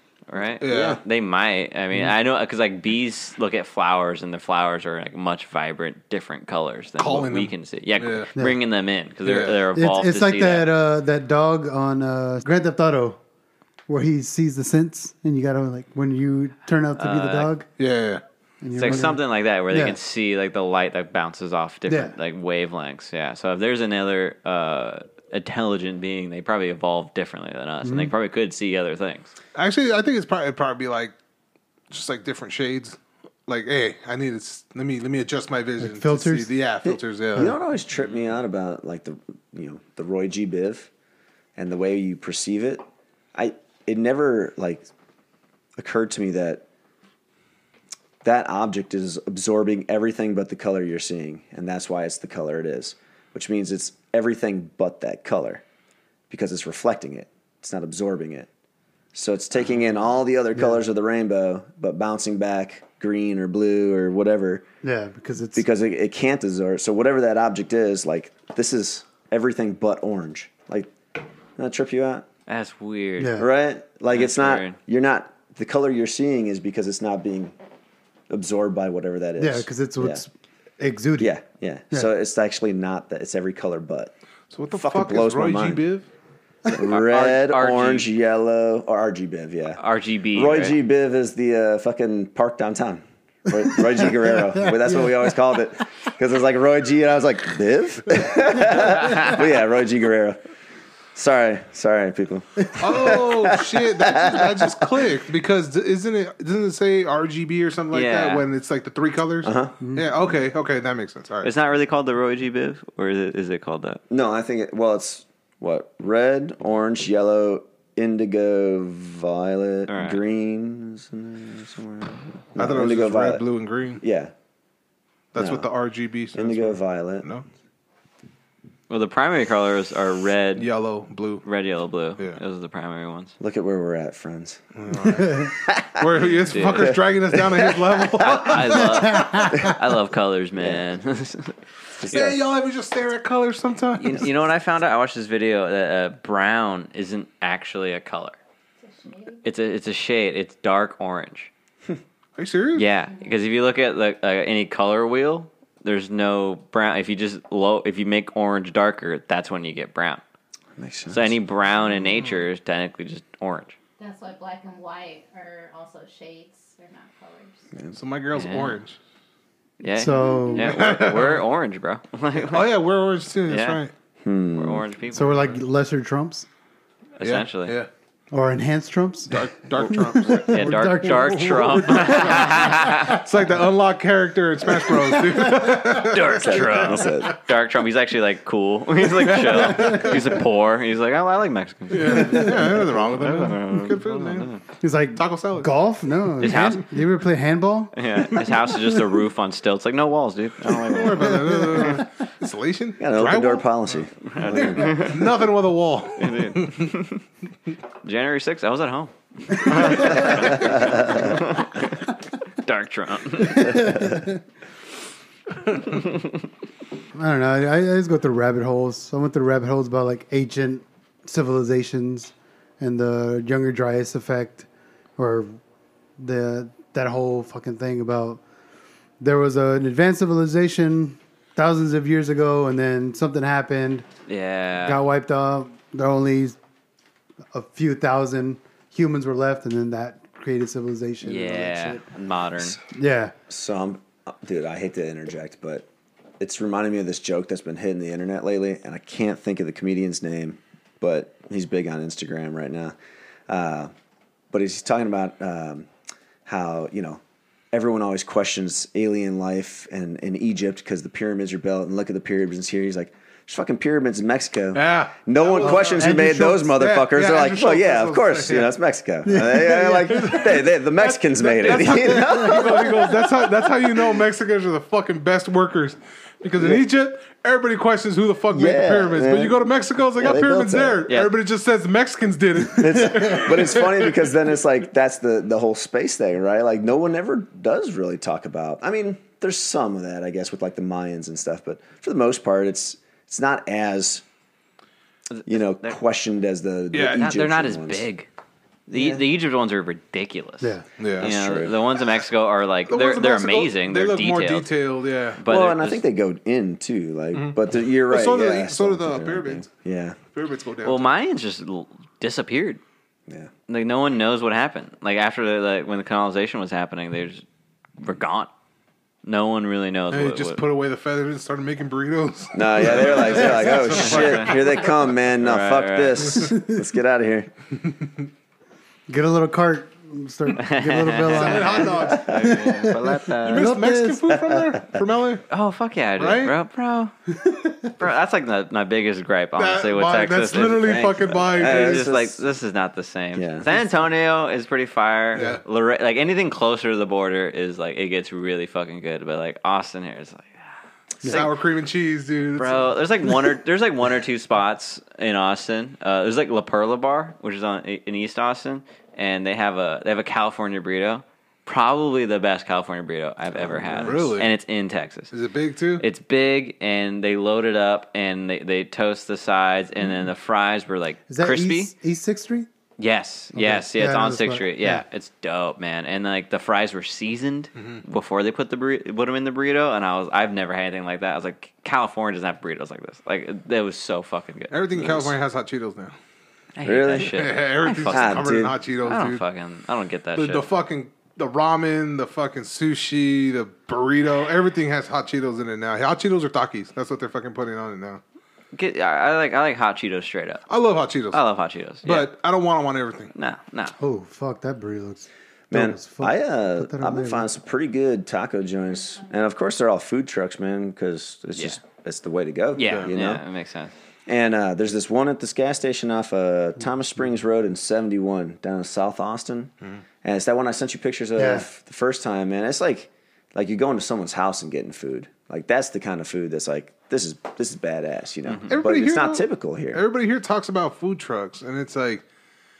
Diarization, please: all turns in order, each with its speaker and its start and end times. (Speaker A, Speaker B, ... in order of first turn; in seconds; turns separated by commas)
Speaker A: 0.3-10.7, Speaker B: 0.6-1.0, Speaker B: 7.0-8.3, Speaker B: 9.2-9.6, Speaker C: 9.7-13.2, Speaker C: 13.9-17.6, Speaker A: 17.0-17.5, Speaker B: 17.8-18.2, Speaker C: 18.6-20.0, Speaker A: 18.7-29.3, Speaker C: 21.9-22.1, Speaker C: 27.8-28.1, Speaker B: 29.5-31.1, Speaker B: 31.9-37.5, Speaker C: 35.8-36.5, Speaker D: 36.8-40.9, Speaker D: 41.5-44.9, Speaker D: 45.8-46.6, Speaker D: 48.2-55.6, Speaker D: 56.3-58.5, Speaker D: 59.1-64.7, Speaker C: 60.5-60.8, Speaker C: 64.8-65.6, Speaker D: 65.5-70.9, Speaker D: 71.6-72.3, Speaker A: 72.5-73.4, Speaker C: 73.2-73.5, Speaker D: 73.4-77.5, Speaker A: 74.1-74.8, Speaker D: 78.3-80.2, Speaker C: 79.4-81.3, Speaker D: 81.2-84.1, Speaker B: 84.5-86.1, Speaker D: 84.7-85.8, Speaker D: 86.7-89.8, Speaker A: 86.7-88.1, Speaker A: 89.8-90.8, Speaker D: 90.3-100.4, Speaker C: 94.9-95.2, Speaker D: 101.1-105.0, Speaker B: 102.8-111.5, Speaker A: 107.9-108.4, Speaker D: 109.4-109.8, Speaker A: 111.4-114.0, Speaker D: 114.1-123.4, Speaker A: 119.9-120.2, Speaker B: 122.5-124.0, Speaker D: 124.0-124.3, Speaker B: 125.3-127.4, Speaker D: 125.3-125.7, Speaker D: 126.3-127.3, Speaker A: 128.9-130.7, Speaker B: 130.6-131.4, Speaker A: 131.4-133.3, Speaker D: 133.4-134.6, Speaker B: 134.7-139.0, Speaker C: 135.1-135.5, Speaker D: 135.6-137.9, Speaker A: 136.5-136.9, Speaker A: 138.2-141.6, Speaker C: 138.9-139.7, Speaker D: 140.6-140.9, Speaker D: 142.0-142.4, Speaker B: 142.1-144.2, Speaker A: 144.0-148.4, Speaker E: 148.8-149.4, Speaker A: 149.4-151.5, Speaker B: 152.4-152.9, Speaker A: 152.7-160.2, Speaker D: 160.8-161.4, Speaker A: 161.1-163.8, Speaker E: 164.0-167.7, Speaker B: 167.9-169.0, Speaker A: 168.3-168.8, Speaker A: 169.8-172.7, Speaker C: 169.9-170.8, Speaker B: 170.6-171.4, Speaker B: 172.3-173.9, Speaker A: 173.5-173.8, Speaker D: 174.2-174.8, Speaker A: 174.5-175.5, Speaker C: 175.1-176.5, Speaker A: 177.2-177.7, Speaker B: 177.2-177.9, Speaker C: 178.3-182.7, Speaker B: 179.3-187.1, Speaker A: 180.2-183.2, Speaker A: 185.4-194.6, Speaker D: 186.3-187.4, Speaker B: 189.1-190.4, Speaker B: 191.9-194.6, Speaker C: 194.8-198.8, Speaker B: 195.1-195.7, Speaker A: 196.4-197.0, Speaker A: 197.9-202.0, Speaker B: 200.8-206.9, Speaker C: 201.6-201.9, Speaker D: 203.0-205.1, Speaker A: 204.3-205.3, Speaker A: 206.2-207.2, Speaker A: 208.0-214.1, Speaker D: 210.0-211.3, Speaker C: 213.4-214.4, Speaker C: 217.1-224.7, Speaker C: 225.2-225.6, Speaker C: 226.2-228.4, Speaker C: 229.2-234.0, Speaker A: 234.3-235.0, Speaker C: 234.8-236.6, Speaker C: 237.5-242.0, Speaker A: 241.2-242.8, Speaker C: 242.9-243.3, Speaker D: 243.5-245.8, Speaker D: 246.4-252.9, Speaker D: 253.5-253.9, Speaker D: 254.5-255.9, Speaker D: 256.4-257.2, Speaker D: 257.7-273.2, Speaker B: 264.7-268.7, Speaker C: 265.6-266.8, Speaker C: 269.2-270.4, Speaker B: 270.1-284.2, Speaker D: 276.6-276.8, Speaker D: 278.5-279.6, Speaker D: 280.2-281.0, Speaker A: 281.1-281.3, Speaker D: 282.7-294.2, Speaker A: 295.3-295.9, Speaker D: 295.4-298.1, Speaker B: 296.9-297.2, Speaker A: 296.9-298.3, Speaker A: 298.9-304.7, Speaker D: 298.9-299.2, Speaker C: 300.6-300.9, Speaker B: 301.0-301.3, Speaker D: 301.2-301.8, Speaker B: 302.9-305.4, Speaker A: 305.4-306.0, Speaker D: 305.5-310.2, Speaker B: 307.3-309.7, Speaker B: 310.3-311.1, Speaker A: 310.8-312.8, Speaker A: 313.7-317.4, Speaker A: 318.0-318.5, Speaker A: 319.2-320.6, Speaker B: 320.1-324.8, Speaker D: 322.5-327.5, Speaker A: 324.0-324.6, Speaker A: 325.4-326.4, Speaker C: 326.4-326.8, Speaker C: 329.1-334.3, Speaker A: 330.5-333.7, Speaker B: 331.3-332.6, Speaker B: 333.4-335.4, Speaker D: 334.3-334.9, Speaker A: 335.5-337.1, Speaker B: 336.2-336.6, Speaker C: 337.4-337.9, Speaker A: 338.0-350.7, Speaker B: 339.6-342.1, Speaker D: 340.8-342.4, Speaker D: 343.3-343.7, Speaker B: 345.3-345.6, Speaker B: 351.2-352.9, Speaker A: 352.6-365.3, Speaker D: 363.5-364.2, Speaker B: 364.0-364.5, Speaker B: 365.3-366.1, Speaker A: 366.0-371.9, Speaker C: 371.3-372.7, Speaker A: 373.0-385.3, Speaker C: 373.5-375.0, Speaker B: 377.8-378.0, Speaker B: 384.7-386.1, Speaker A: 386.8-390.7, Speaker D: 386.8-387.3, Speaker B: 387.2-389.4, Speaker D: 388.1-388.7, Speaker B: 390.3-398.2, Speaker A: 398.7-400.6, Speaker B: 400.7-401.4, Speaker A: 401.3-402.3, Speaker B: 402.0-403.3, Speaker A: 403.3-403.9, Speaker C: 404.0-407.4, Speaker D: 405.7-413.4, Speaker A: 412.8-413.9, Speaker B: 412.8-413.1, Speaker D: 414.3-430.1, Speaker C: 421.4-421.6, Speaker B: 428.7-432.2